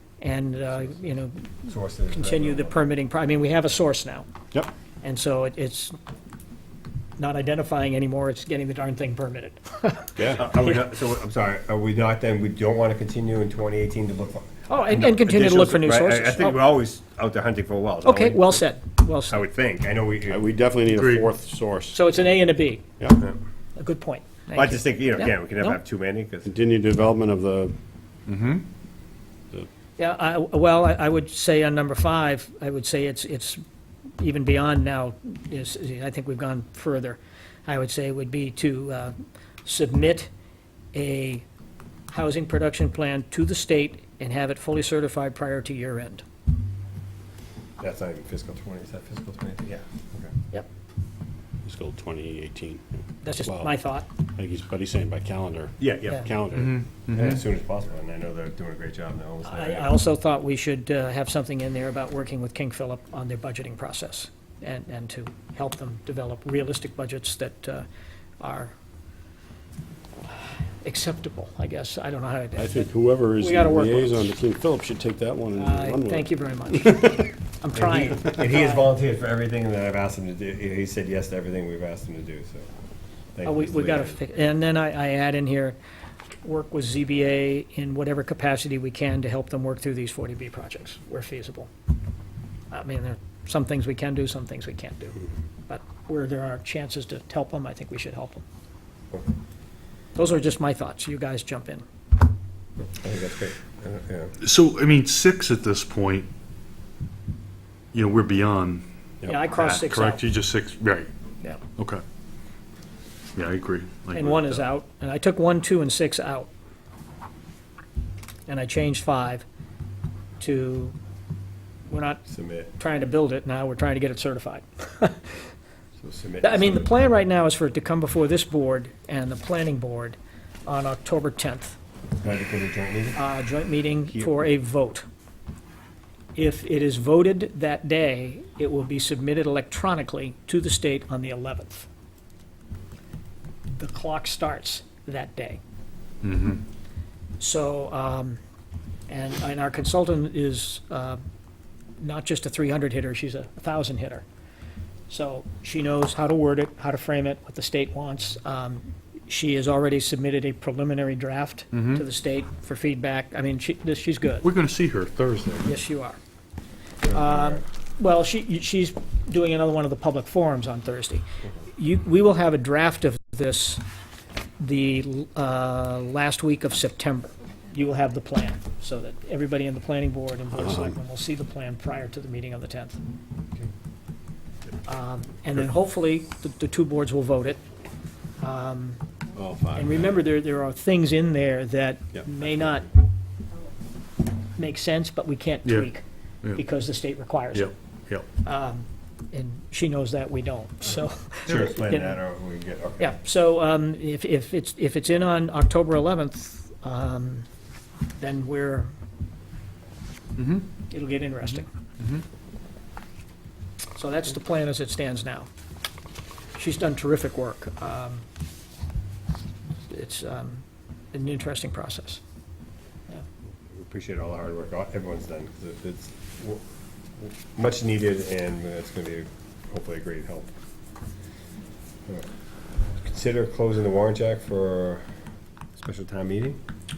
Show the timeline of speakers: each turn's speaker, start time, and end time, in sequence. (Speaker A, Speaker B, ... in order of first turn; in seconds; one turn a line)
Speaker A: 0.2-1.5
Speaker B: 1.6-2.8
Speaker A: 2.1-4.3
Speaker A: 5.0-6.0
Speaker A: 7.2-10.8
Speaker C: 10.2-10.4
Speaker B: 10.3-18.6
Speaker A: 14.7-16.6
Speaker A: 18.0-19.5
Speaker B: 19.3-20.4
Speaker C: 20.3-22.2
Speaker D: 20.9-21.3
Speaker A: 21.9-22.8
Speaker A: 23.8-25.8
Speaker B: 24.5-26.5
Speaker C: 26.4-27.7
Speaker D: 28.3-28.6
Speaker A: 30.0-33.6
Speaker A: 34.2-40.3
Speaker A: 40.9-41.4
Speaker A: 42.1-46.2
Speaker B: 47.8-50.3
Speaker C: 51.6-52.8
Speaker A: 53.2-54.0
Speaker C: 53.4-53.7
Speaker C: 54.4-56.8
Speaker B: 55.8-56.2
Speaker D: 56.5-57.4
Speaker B: 57.1-59.9
Speaker A: 59.5-67.9
Speaker A: 68.4-68.7
Speaker A: 70.8-74.3
Speaker C: 72.6-76.3
Speaker A: 75.6-78.9
Speaker C: 76.9-77.2
Speaker B: 77.7-82.7
Speaker B: 83.3-84.2
Speaker A: 83.4-85.8
Speaker A: 86.4-91.7
Speaker A: 92.7-98.4
Speaker A: 100.2-101.8
Speaker B: 102.8-104.3
Speaker D: 104.4-106.3
Speaker D: 107.9-111.1
Speaker A: 109.3-110.2
Speaker D: 111.8-112.0
Speaker D: 113.3-114.7
Speaker A: 114.1-116.5
Speaker A: 118.5-119.5
Speaker A: 120.4-121.0
Speaker A: 121.9-122.2
Speaker B: 122.3-122.7
Speaker A: 122.8-125.5
Speaker B: 126.0-126.9
Speaker A: 126.4-131.8
Speaker B: 132.2-133.2
Speaker A: 133.1-135.1
Speaker A: 136.3-141.9
Speaker A: 143.7-145.6
Speaker D: 146.2-146.6
Speaker A: 147.4-148.4
Speaker A: 149.1-151.2
Speaker A: 152.0-154.2
Speaker A: 155.1-164.4
Speaker D: 161.7-162.0
Speaker D: 164.4-165.7
Speaker A: 165.6-166.2
Speaker B: 167.1-167.6
Speaker A: 167.1-173.8
Speaker A: 174.6-183.0
Speaker C: 180.5-180.9
Speaker A: 184.8-187.6
Speaker A: 188.4-189.0
Speaker C: 189.3-190.2
Speaker A: 189.7-192.9
Speaker A: 194.6-196.0
Speaker A: 196.5-197.7
Speaker D: 197.5-198.3
Speaker A: 198.4-202.2
Speaker D: 201.4-201.8
Speaker B: 201.5-203.2
Speaker A: 203.0-207.4
Speaker A: 208.2-208.9
Speaker D: 210.4-210.6
Speaker A: 210.9-211.7
Speaker A: 213.9-215.5
Speaker A: 216.6-218.2
Speaker A: 219.9-222.2
Speaker B: 223.7-226.6
Speaker B: 227.2-230.5
Speaker B: 233.0-235.0
Speaker B: 235.8-236.6